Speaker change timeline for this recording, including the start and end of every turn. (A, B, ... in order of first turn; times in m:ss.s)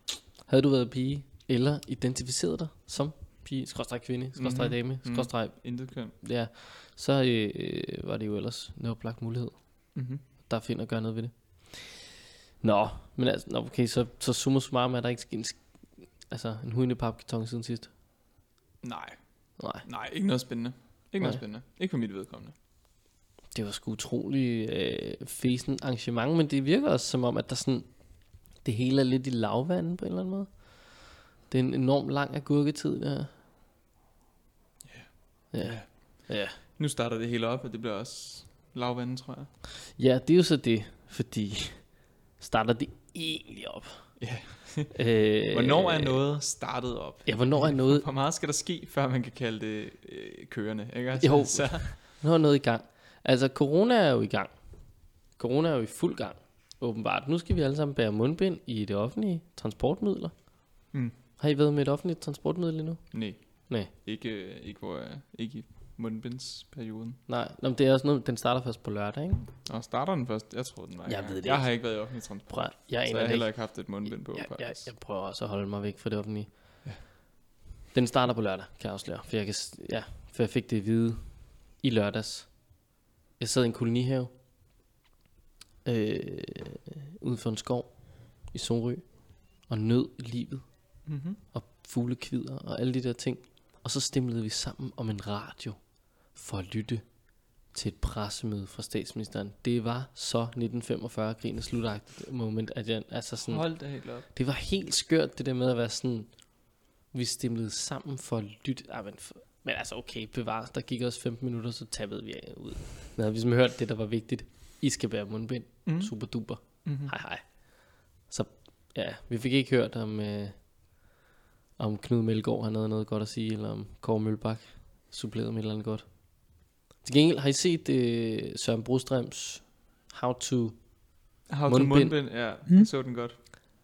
0:00.5-0:09.6 A
0:04.4-0:06.2 B
0:10.0-0:10.2 B
0:10.5-0:17.9 A
0:18.8-0:19.2 B
0:19.6-0:19.8 A
0:19.8-0:22.5 B
0:23.5-0:27.9 A
0:28.6-0:33.3 A
0:34.9-0:39.5 B
0:35.5-0:36.6 A
0:40.0-0:44.1 A
0:44.2-0:52.0 B
0:44.9-0:46.2 A
0:47.3-0:48.0 A
0:51.2-0:54.5 A
0:55.3-1:00.4 A
1:01.4-1:03.9 A
1:03.1-1:07.2 B
1:07.3-1:09.5 A
1:09.7-1:14.9 B
1:11.1-1:16.5 A
1:17.9-1:22.8 A
1:23.4-1:24.3 A
1:25.8-1:30.7 A
1:31.1-1:31.4 B
1:31.5-1:35.8 A
1:36.3-1:37.2 A
1:37.7-1:46.3 A
1:43.4-1:44.3 B
1:47.1-1:57.7 A
1:55.9-1:57.1 B
1:58.2-2:00.6 A
2:01.8-2:06.1 A
2:07.0-2:10.8 A
2:11.5-2:13.4 B
2:11.7-2:12.2 A